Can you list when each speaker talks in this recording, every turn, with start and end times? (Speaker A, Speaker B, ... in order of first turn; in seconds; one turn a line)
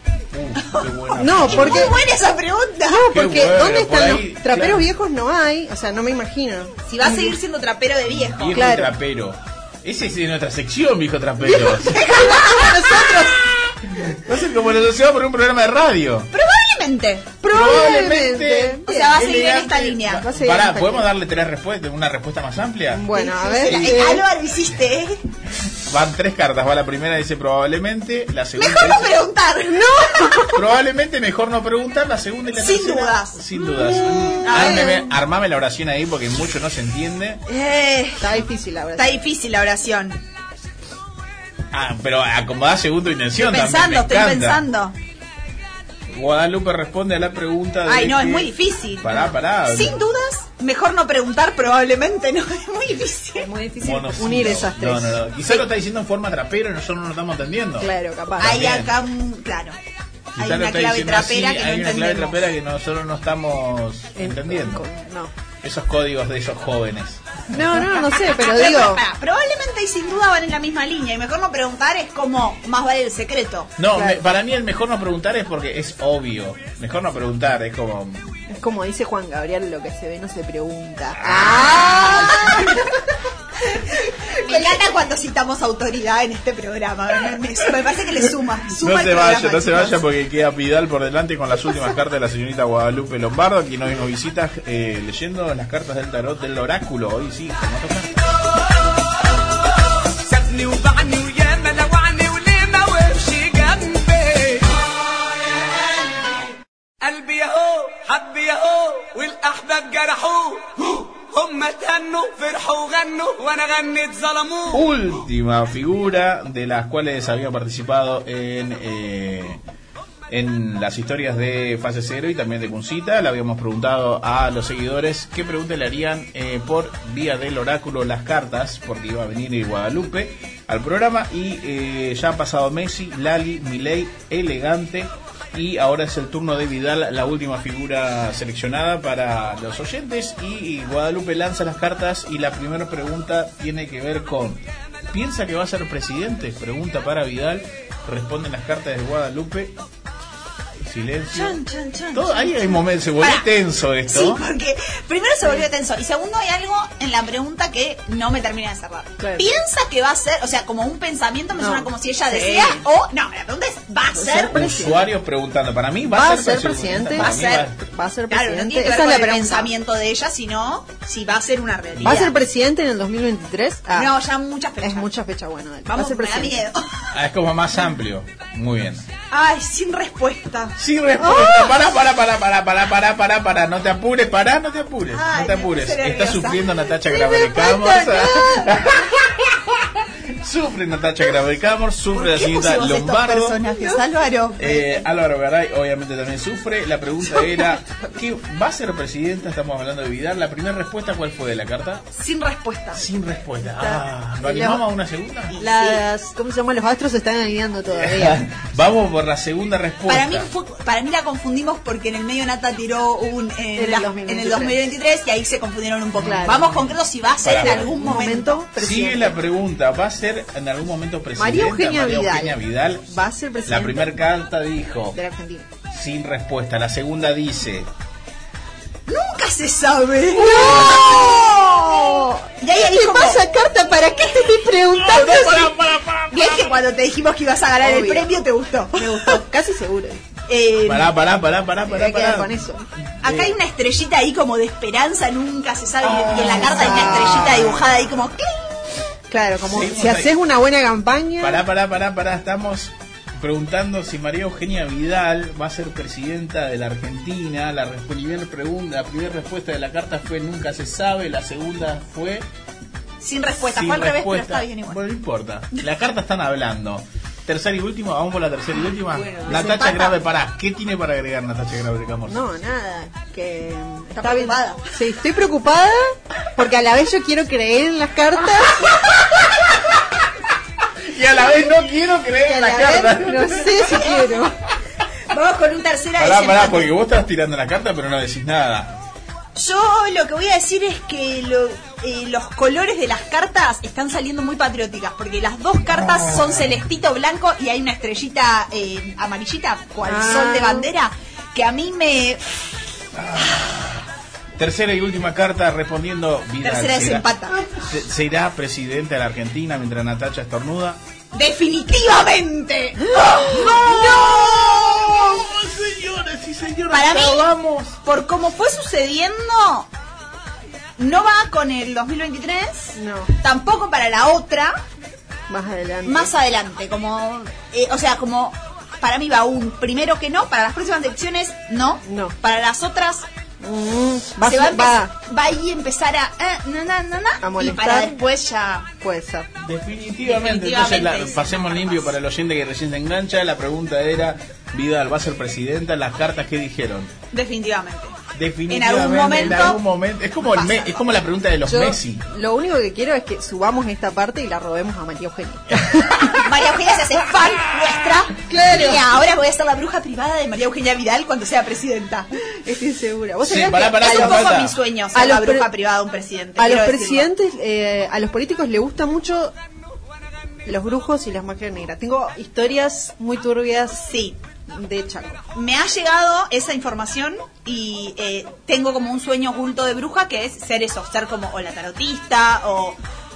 Speaker A: 0.3-2.0
Speaker B: 0.6-3.0
Speaker C: 1.2-2.0
Speaker C: 2.9-7.4
Speaker A: 3.1-4.8
Speaker B: 6.9-8.6
Speaker A: 8.1-12.1
Speaker C: 8.5-8.9
Speaker C: 11.4-13.4
Speaker B: 11.8-13.2
Speaker A: 13.9-16.3
Speaker B: 16.3-17.3
Speaker C: 17.4-19.2
Speaker A: 17.5-23.1
Speaker B: 18.9-20.3
Speaker C: 20.2-21.1
Speaker C: 22.9-24.2
Speaker B: 23.1-25.2
Speaker A: 23.6-24.2
Speaker A: 25.8-29.2
Speaker B: 28.6-30.5
Speaker C: 29.7-30.6
Speaker A: 30.5-37.4
Speaker B: 32.5-35.0
Speaker C: 33.7-35.1
Speaker B: 37.5-38.3
Speaker C: 38.2-39.2
Speaker B: 39.0-40.2
Speaker A: 41.7-44.6
Speaker B: 43.4-45.0
Speaker A: 46.1-50.0
Speaker B: 47.9-53.5
Speaker C: 53.4-55.6
Speaker A: 53.8-59.0
Speaker C: 57.8-58.6
Speaker B: 58.4-59.8
Speaker A: 60.3-64.8
Speaker B: 60.4-62.5
Speaker C: 64.2-65.3
Speaker A: 65.6-67.4
Speaker C: 67.5-69.0
Speaker B: 68.0-73.7
Speaker A: 73.8-78.4
Speaker C: 73.9-74.2
Speaker C: 78.5-83.0
Speaker A: 81.2-82.7
Speaker B: 81.8-82.7
Speaker C: 83.7-84.8
Speaker B: 84.4-90.0
Speaker A: 88.8-98.3
Speaker D: 100.2-104.7
Speaker D: 107.0-114.8
Speaker A: 114.7-119.6
Speaker A: 120.3-149.8
Speaker A: 150.8-151.6
Speaker B: 151.3-153.5
Speaker A: 152.1-154.4
Speaker B: 154.1-164.6
Speaker C: 159.2-159.4
Speaker C: 161.6-162.9
Speaker C: 164.1-165.1
Speaker A: 164.3-167.8
Speaker C: 166.1-169.7
Speaker B: 167.2-167.7
Speaker B: 168.3-172.3
Speaker A: 171.9-172.3
Speaker C: 172.0-174.1
Speaker B: 173.9-175.1
Speaker C: 174.8-176.7
Speaker B: 175.9-177.1
Speaker A: 177.1-179.1
Speaker B: 179.3-180.8
Speaker A: 180.8-193.6
Speaker C: 181.2-181.9
Speaker B: 185.1-186.7
Speaker C: 187.0-188.8
Speaker B: 192.1-195.0
Speaker C: 193.7-194.0
Speaker A: 194.6-202.1
Speaker C: 197.3-197.7
Speaker B: 202.1-203.0
Speaker A: 202.9-205.6
Speaker C: 203.8-204.8
Speaker B: 205.5-206.0
Speaker C: 205.6-208.5
Speaker A: 207.9-210.5
Speaker B: 210.1-218.6
Speaker C: 213.8-214.8
Speaker C: 216.2-216.7
Speaker A: 216.2-216.9
Speaker A: 217.4-223.1
Speaker C: 217.4-219.4
Speaker C: 221.4-224.1
Speaker A: 223.7-225.2
Speaker C: 225.1-225.7
Speaker A: 225.9-227.9
Speaker B: 229.1-231.6
Speaker C: 230.3-235.7
Speaker A: 230.5-231.2
Speaker B: 232.6-233.5
Speaker A: 234.8-236.8
Speaker B: 235.1-235.7
Speaker B: 236.3-239.4
Speaker C: 237.8-238.3
Speaker C: 238.9-240.2
Speaker B: 240.5-241.2
Speaker A: 240.8-243.6
Speaker C: 241.8-242.8
Speaker B: 243.2-248.8
Speaker A: 246.0-247.9
Speaker C: 246.4-247.9
Speaker C: 249.3-251.6
Speaker A: 249.6-250.3
Speaker A: 251.4-262.4
Speaker B: 263.2-265.0
Speaker A: 263.6-272.4
Speaker C: 269.1-269.9
Speaker B: 269.4-270.2
Speaker C: 272.3-279.0
Speaker B: 274.1-274.8
Speaker A: 278.8-280.0
Speaker A: 281.0-284.1
Speaker C: 282.4-284.6
Speaker B: 283.8-284.4
Speaker B: 285.3-286.9
Speaker A: 286.2-289.0
Speaker B: 289.5-302.4
Speaker A: 295.9-296.8
Speaker C: 300.0-300.9
Speaker A: 303.1-304.1
Speaker A: 304.6-311.0
Speaker B: 306.6-307.6
Speaker B: 311.3-314.6
Speaker C: 313.1-314.2
Speaker A: 313.1-318.0
Speaker B: 316.9-317.5
Speaker B: 318.0-319.9
Speaker B: 321.0-324.8
Speaker C: 322.9-323.3
Speaker C: 325.5-326.3
Speaker B: 326.0-333.2
Speaker C: 332.0-332.4
Speaker C: 333.6-335.1
Speaker B: 334.4-338.9
Speaker C: 337.4-338.2
Speaker C: 339.0-339.5
Speaker A: 339.6-347.1
Speaker B: 340.2-342.1
Speaker B: 347.3-348.2
Speaker A: 348.3-352.2
Speaker B: 348.7-349.8
Speaker C: 351.6-356.5
Speaker B: 356.3-362.3
Speaker C: 358.3-359.2
Speaker C: 362.4-364.6
Speaker A: 363.4-364.8
Speaker B: 364.0-367.3
Speaker C: 365.1-365.7
Speaker C: 366.6-369.5
Speaker C: 370.6-374.1
Speaker B: 374.1-374.4
Speaker C: 374.7-375.4
Speaker B: 375.5-383.0